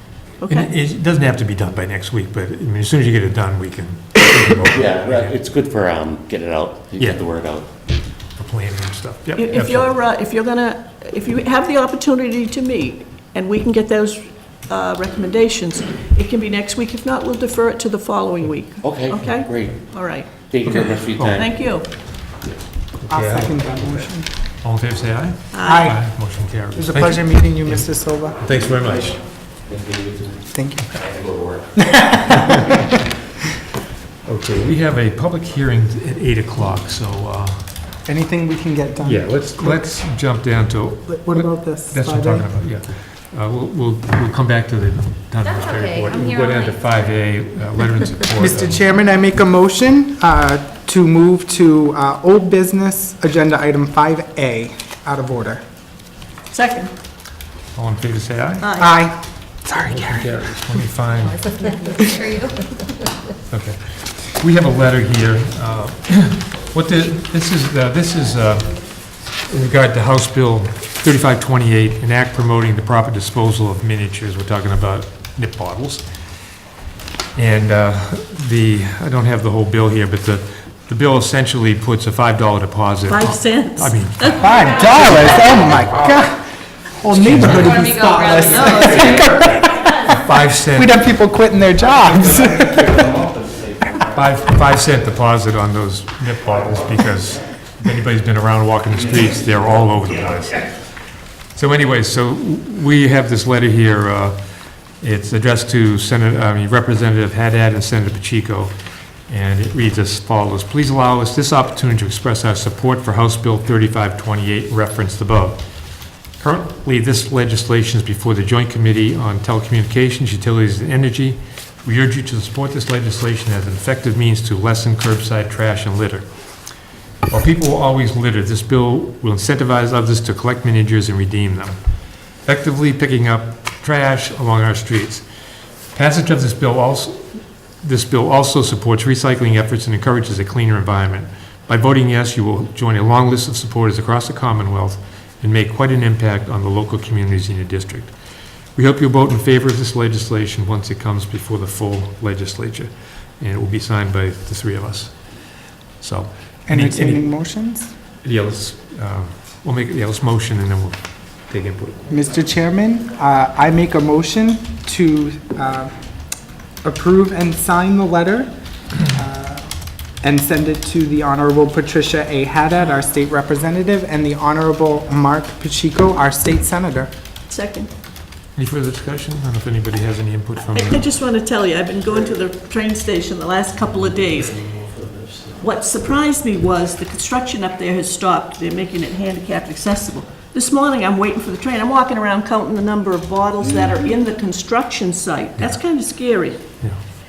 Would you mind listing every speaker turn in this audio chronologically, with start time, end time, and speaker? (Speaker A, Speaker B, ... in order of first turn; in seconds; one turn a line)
Speaker A: 0.4-0.7
Speaker B: 0.5-5.4
Speaker C: 4.7-7.7
Speaker B: 7.0-7.3
Speaker B: 8.4-9.9
Speaker A: 9.4-21.9
Speaker C: 18.8-21.6
Speaker B: 20.7-21.5
Speaker B: 23.0-24.1
Speaker D: 23.1-24.3
Speaker B: 24.6-27.9
Speaker A: 25.5-25.9
Speaker D: 25.6-26.0
Speaker D: 26.8-28.4
Speaker B: 28.4-29.2
Speaker C: 29.7-31.8
Speaker D: 30.5-30.9
Speaker D: 31.8-32.7
Speaker B: 34.3-37.7
Speaker D: 38.0-39.8
Speaker B: 39.0-48.8
Speaker D: 41.1-42.5
Speaker E: 45.4-47.1
Speaker D: 48.4-55.6
Speaker A: 56.5-56.9
Speaker B: 57.8-58.7
Speaker A: 58.6-59.0
Speaker D: 58.8-60.3
Speaker B: 59.9-61.5
Speaker E: 61.2-62.9
Speaker B: 63.5-76.0
Speaker B: 77.3-84.7
Speaker A: 83.1-85.1
Speaker D: 84.4-86.4
Speaker E: 84.5-85.7
Speaker D: 87.0-89.9
Speaker B: 87.2-87.8
Speaker E: 87.3-90.0
Speaker A: 88.5-89.4
Speaker B: 90.0-91.0
Speaker D: 90.7-93.1
Speaker C: 93.1-93.9
Speaker B: 94.1-100.7
Speaker B: 101.5-104.4
Speaker B: 105.0-108.7
Speaker B: 109.3-115.6
Speaker B: 116.4-126.3
Speaker B: 127.3-131.8
Speaker B: 132.5-135.2
Speaker B: 135.9-137.2
Speaker B: 137.8-148.1
Speaker B: 148.8-155.2
Speaker B: 156.0-157.3
Speaker D: 156.7-157.9
Speaker B: 158.2-162.1
Speaker D: 162.1-165.9
Speaker D: 166.8-168.5
Speaker D: 169.0-169.7
Speaker D: 170.2-177.1
Speaker A: 177.5-177.9
Speaker B: 178.6-181.1
Speaker A: 180.6-184.6
Speaker A: 185.6-196.8